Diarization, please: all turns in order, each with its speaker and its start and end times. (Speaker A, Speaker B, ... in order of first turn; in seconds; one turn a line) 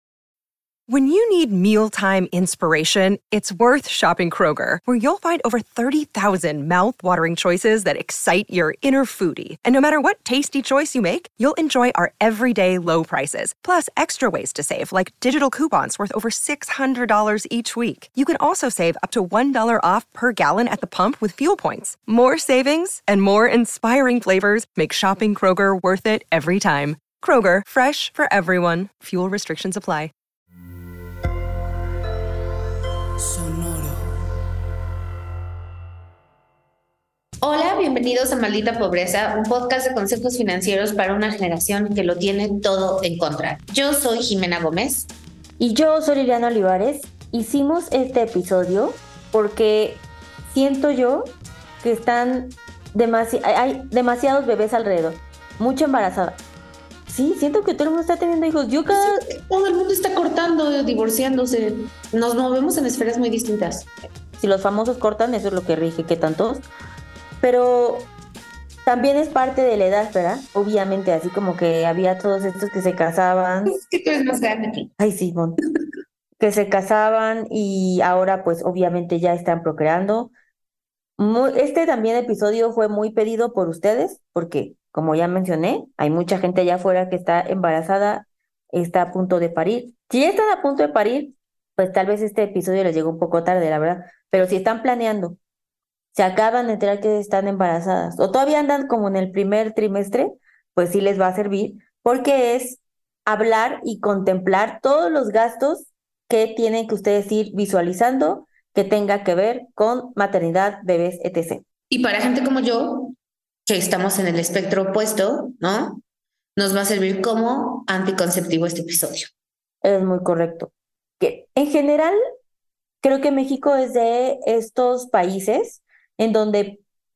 Speaker A: 0.9-30.1
Speaker B: 37.4-45.1
Speaker C: 45.6-56.4
Speaker C: 57.1-59.2
Speaker B: 58.9-63.9
Speaker C: 64.4-66.7
Speaker C: 67.4-68.1
Speaker C: 68.9-73.7
Speaker B: 73.7-74.9
Speaker C: 75.0-75.6
Speaker C: 76.4-80.3
Speaker C: 81.2-95.4
Speaker C: 96.1-111.6
Speaker B: 111.9-113.2
Speaker B: 113.7-116.0
Speaker B: 116.6-119.3
Speaker C: 119.8-122.2
Speaker C: 123.0-126.8